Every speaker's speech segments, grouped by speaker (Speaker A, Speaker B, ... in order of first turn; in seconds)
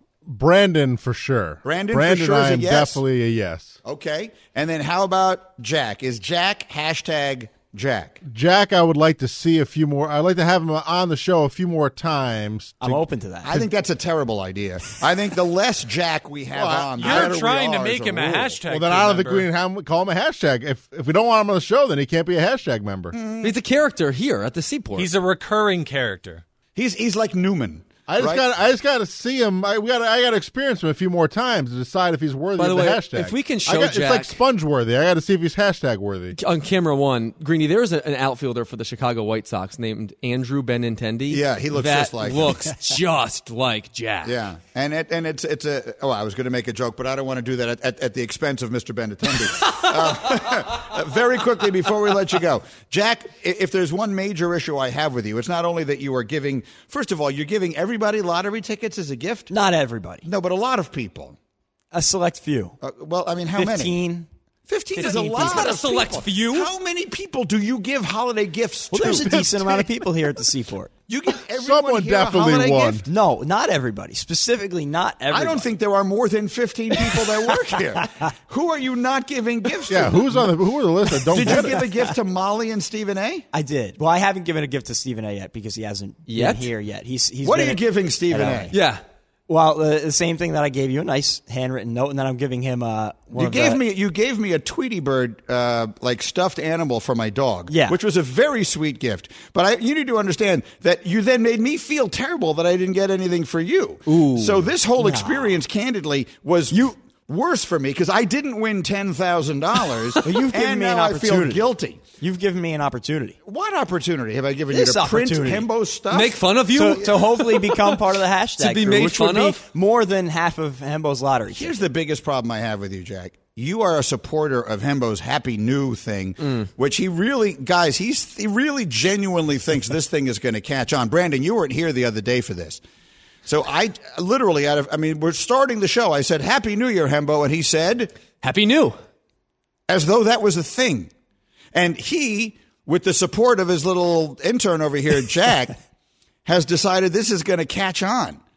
Speaker A: 0.3-3.8, 8.2-13.1, 17.0-17.4, 18.7-23.2, 28.1-36.4, 71.6-73.0, 79.9-81.9
Speaker B: 1.6-3.0, 3.8-8.2, 13.4-18.6, 23.1-23.6, 26.8-28.5, 41.3-42.6, 44.2-59.5, 60.2-61.4, 62.8-64.0, 64.7-69.9, 71.1-73.1, 75.3-80.5, 81.3-83.5, 87.4-88.7, 93.3-112.0, 113.5-116.4, 121.5-132.8, 133.4-138.1, 139.9-141.1, 141.7-145.8, 146.4-148.4
Speaker C: 12.8-13.6, 59.5-60.2, 61.9-62.8, 63.6-64.3, 65.0-65.8, 68.9-70.9, 73.1-75.7, 83.5-88.7, 89.5-93.8, 97.7-98.0, 105.0-105.6, 110.2-113.4, 114.7-115.7, 116.7-121.8
Speaker D: 16.6-19.5, 24.9-26.4
Speaker E: 23.4-25.1, 32.6-34.4, 36.3-44.4, 65.0-66.7, 86.3-86.7, 88.7-89.0, 104.1-104.6, 116.1-118.0, 118.6-119.7, 138.4-139.0